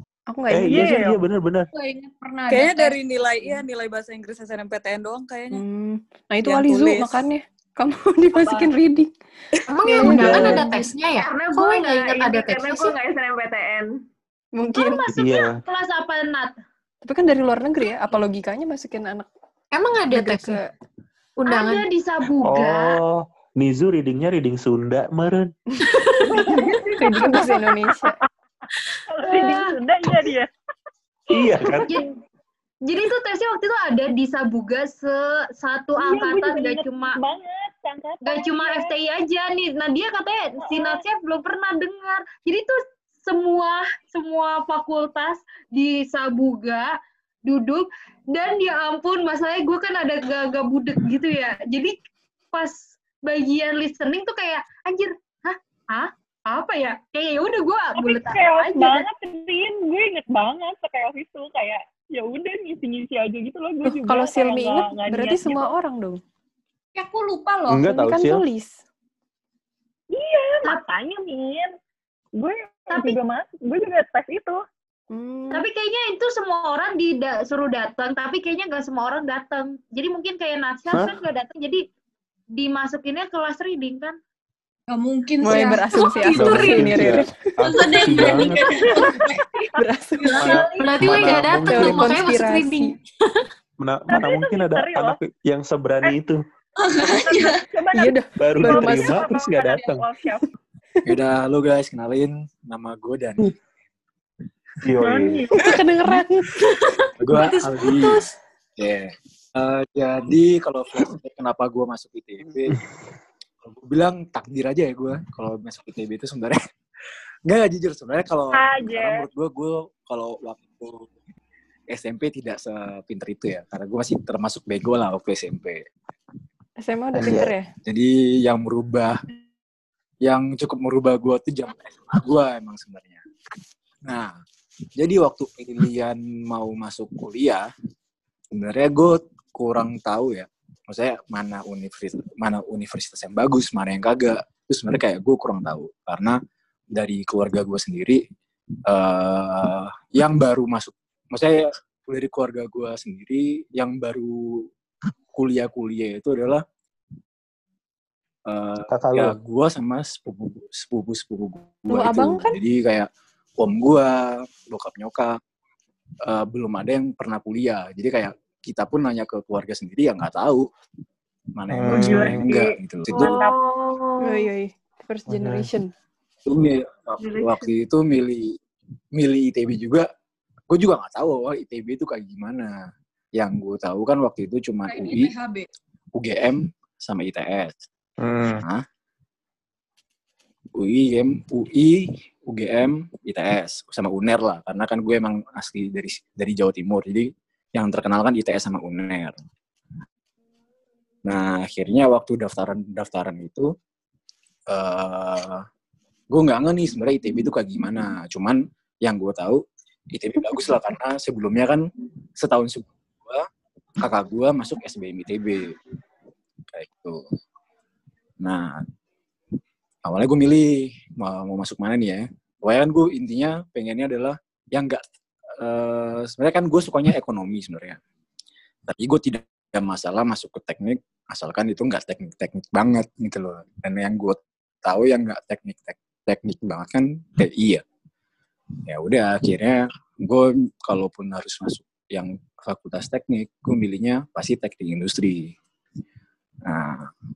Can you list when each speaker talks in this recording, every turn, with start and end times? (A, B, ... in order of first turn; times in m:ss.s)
0:00.3-0:01.1 A
0:00.5-0:01.7 B
0:00.7-0:01.2 C
0:01.7-0:03.6 D
0:02.5-0:05.6 E
0:05.5-0:09.1 A
0:06.4-0:07.2 E
0:09.7-0:13.0 F
0:09.9-0:13.9 G
0:09.9-0:10.7 A
0:09.9-0:10.5 H
0:10.0-0:10.7 B
0:14.6-0:15.0 A
0:14.7-0:16.6 H
0:15.1-0:15.6 B
0:17.0-0:19.3 A
0:19.7-0:20.6 F
0:20.1-0:20.7 A
0:21.4-0:21.9 F
0:21.5-0:23.0 H
0:22.4-0:25.5 B
0:26.5-0:26.8 H
0:27.0-0:28.2 A
0:29.1-0:30.5 C
0:29.3-0:29.8 H
0:31.3-0:31.9 B
0:32.8-0:37.2 H
0:36.0-0:38.9 C
0:38.2-0:52.0 H
0:40.6-0:41.0 C
0:52.5-0:59.1 H
0:58.0-1:05.7 C
1:03.8-1:06.2 A
1:07.0-1:07.9 D
1:07.7-1:08.4 B
1:07.9-1:08.8 A
1:10.1-1:11.7 C
1:12.4-1:14.6 C
1:12.9-1:13.2 H
1:15.1-1:15.7 A
1:15.5-1:21.8 H
1:22.5-1:24.2 H
1:24.9-1:30.7 D
1:25.4-1:27.5 A
1:26.3-1:28.6 B
1:29.8-1:30.6 A
1:30.4-1:32.2 B
1:30.4-1:31.1 H
1:30.8-1:33.0 F
1:31.1-1:33.0 A
1:33.8-1:36.4 B
1:34.1-1:35.2 C
1:36.8-1:37.7 D
1:37.1-1:40.5 C
1:37.9-1:39.3 A
1:38.4-1:40.0 B
1:41.0-1:43.6 I
1:44.8-1:45.5 B
1:45.0-1:45.8 C
1:45.5-1:46.5 A
1:46.6-1:48.0 D
1:47.2-1:52.8 I
1:53.6-1:56.6 I
1:57.5-2:01.1 I
1:58.5-1:59.3 C
2:01.9-2:05.8 I
2:06.8-2:07.7 A
2:07.1-2:07.5 B
2:07.3-2:09.2 I
2:10.2-2:13.2 I
2:14.1-2:14.3 I
2:15.0-2:17.7 I
2:18.5-2:26.4 I
2:26.9-2:28.2 I
2:28.9-2:34.7 I
2:35.3-2:36.6 I
2:38.5-2:43.1 I
2:38.9-2:39.4 B
2:41.9-2:42.6 A
2:43.6-2:45.3 I
2:46.2-2:50.7 I
2:51.6-2:53.4 I
2:51.7-2:52.4 B
2:51.9-2:53.6 C
2:53.1-2:54.5 G
2:54.2-2:55.9 A
2:55.3-2:55.7 B
2:56.5-2:58.6 I
2:57.2-2:57.7 G
2:59.2-3:00.1 I
3:00.7-3:02.8 I
3:03.4-3:05.3 I
3:04.9-3:05.7 D
3:06.2-3:07.8 I
3:08.2-3:08.6 B
3:10.8-3:19.4 I
3:21.2-3:23.7 I
3:24.7-3:25.6 I
3:26.3-3:31.8 I
3:32.4-3:33.5 I
3:34.0-3:35.8 I
3:36.7-3:37.2 I
3:38.4-3:38.8 I
3:40.0-3:45.0 I
3:45.6-3:48.0 I
3:48.9-3:57.8 I
3:58.9-4:05.5 I
4:06.6-4:07.1 I